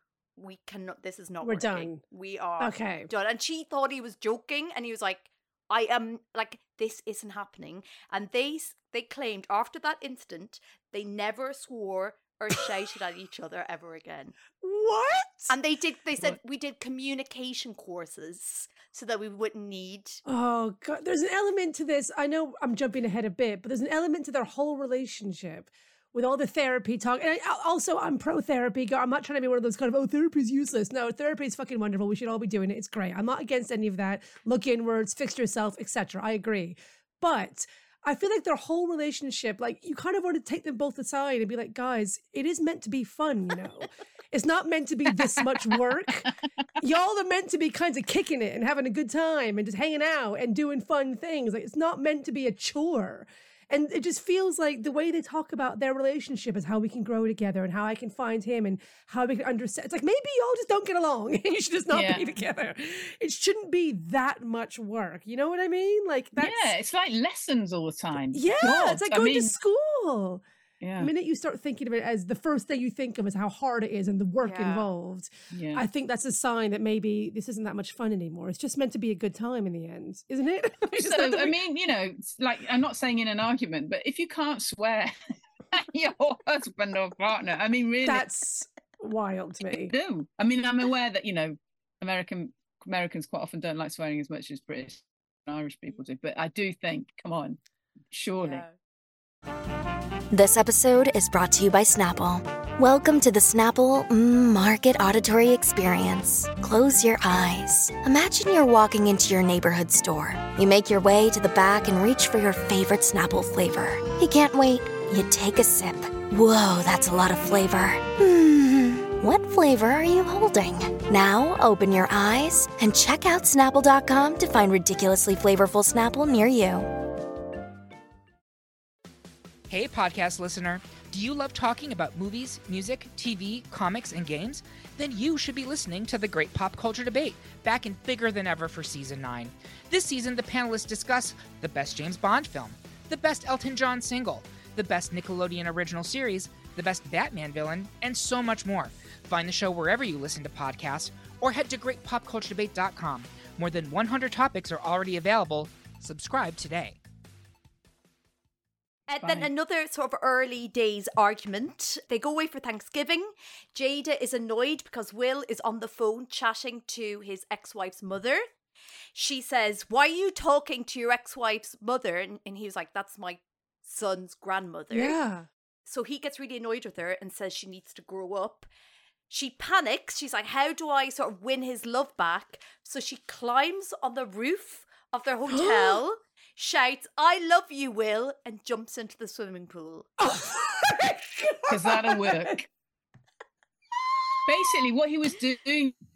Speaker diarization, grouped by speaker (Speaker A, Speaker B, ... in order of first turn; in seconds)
Speaker A: 0.4-14.3, 15.5-20.2, 74.4-74.9, 98.4-98.7, 159.1-168.4, 169.1-175.2, 175.8-178.7, 179.3-190.1
Speaker B: 1.4-2.0, 2.6-3.1, 14.6-15.5, 20.3-46.3, 46.8-66.7, 68.3-70.4, 71.0-81.6, 88.0-89.9, 174.9-175.5, 185.5-186.0, 190.2-192.6
Speaker C: 61.9-62.2, 66.4-69.6, 70.8-71.1, 75.5-75.8, 81.0-85.2, 85.7-88.3, 89.7-97.6, 98.1-98.7, 191.7-192.7, 194.4-195.9
Speaker D: 100.3-126.9
Speaker E: 129.7-157.0